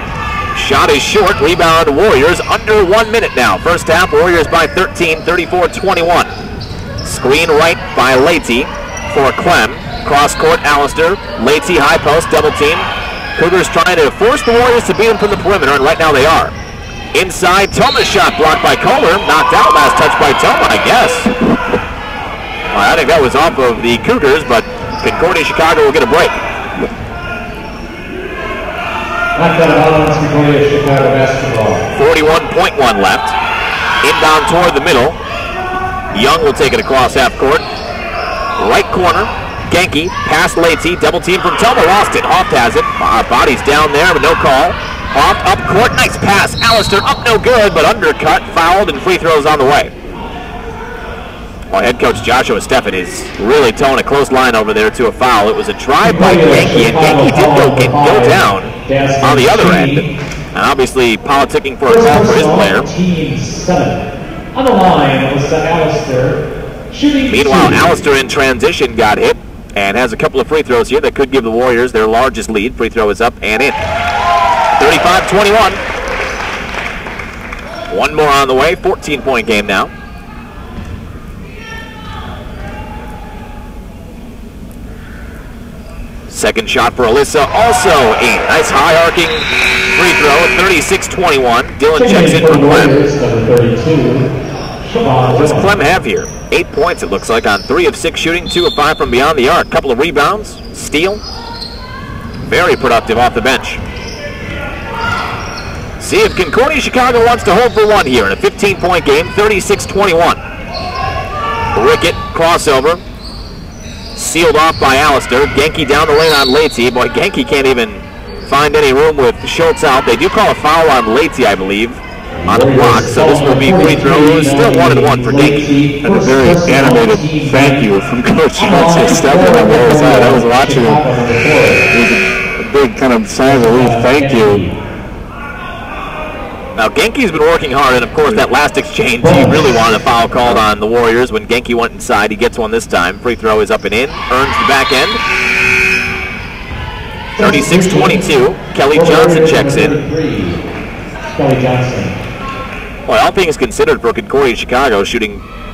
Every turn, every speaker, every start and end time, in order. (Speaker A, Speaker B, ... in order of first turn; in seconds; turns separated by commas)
Speaker A: 0.5-6.3, Speaker A: 7.0-16.5, Speaker A: 17.1-21.3, Speaker A: 22.7-26.4, Speaker B: 29.4-31.9, Speaker A: 31.9-33.3, Speaker A: 34.0-35.2, Speaker A: 36.1-37.6, Speaker A: 38.6-49.9, Speaker A: 51.7-62.9, Speaker B: 56.0-60.1, Speaker B: 61.9-68.0, Speaker A: 67.3-73.8, Speaker A: 74.8-75.8, Speaker A: 77.9-79.9, Speaker A: 86.3-92.9, Speaker B: 92.0-94.3, Speaker B: 94.8-95.7, Speaker A: 95.3-101.2, Speaker A: 102.5-103.8, Speaker A: 106.0-110.4, Speaker A: 111.7-113.0, Speaker A: 114.1-125.7, Speaker B: 122.4-127.9, Speaker C: 126.0-131.0, Speaker B: 128.6-131.9, Speaker C: 131.9-134.6, Speaker B: 133.4-134.8, Speaker A: 136.8-145.2, Speaker B: 139.2-139.7, Speaker B: 147.3-148.2, Speaker A: 147.4-149.9, Speaker B: 148.9-150.6, Speaker B: 151.3-152.2, Speaker A: 153.1-155.4